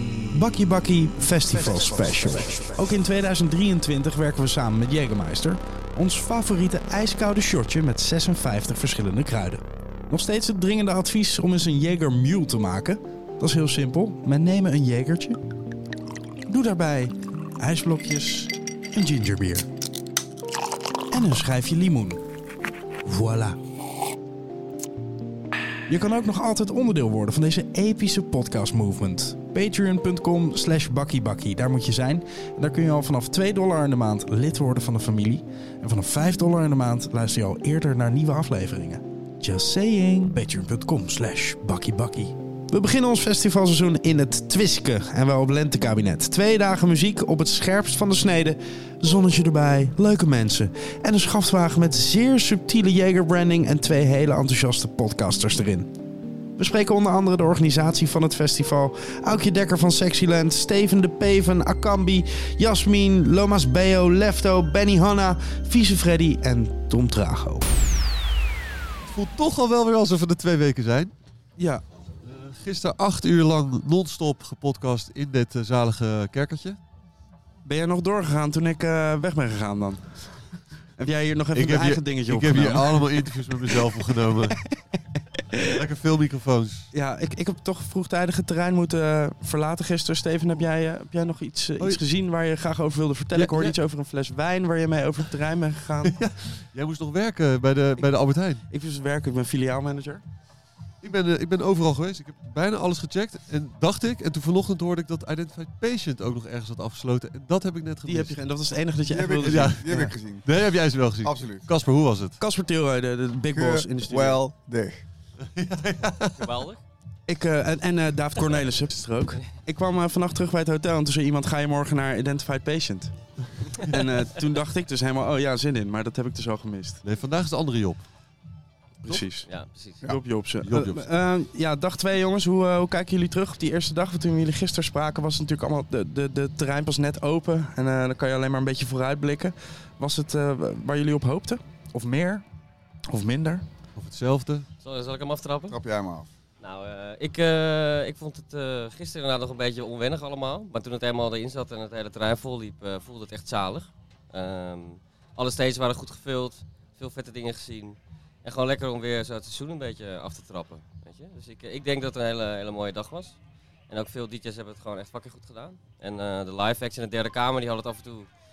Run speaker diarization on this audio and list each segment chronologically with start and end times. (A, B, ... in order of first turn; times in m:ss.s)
0:00.3-0:15.4 A
0:16.4-0:19.7 A
0:21.1-0:22.2 A
0:23.0-0:23.6 A
0:25.9-0:55.9 A
0:56.6-1:07.6 A
1:09.0-1:11.1 B
1:11.6-1:11.8 A
1:12.2-1:16.8 B
1:17.6-1:20.4 A
1:21.0-1:23.1 A
1:21.5-1:24.6 B
1:23.7-1:24.0 A
1:25.3-1:25.6 A
1:25.6-1:26.9 B
1:26.9-1:36.2 A
1:33.3-1:33.7 B
1:36.0-1:38.6 B
1:38.7-1:40.2 A
1:41.0-1:48.4 B
1:48.0-1:50.1 A
1:49.1-1:51.7 C
1:49.4-1:52.4 B
1:52.4-1:54.4 A
1:53.5-1:55.0 C
1:55.4-1:56.5 B
1:56.4-1:56.8 D
1:57.3-2:03.1 A
2:03.9-2:07.0 A
2:07.0-2:08.0 B
2:09.0-2:09.5 A
2:09.5-2:10.0 D
2:10.0-2:22.4 A
2:10.6-2:11.0 B
2:23.1-2:23.6 A
2:24.0-2:24.6 B
2:24.8-2:25.8 D
2:25.7-2:26.3 C
2:26.6-2:43.4 D
2:43.9-2:48.3 D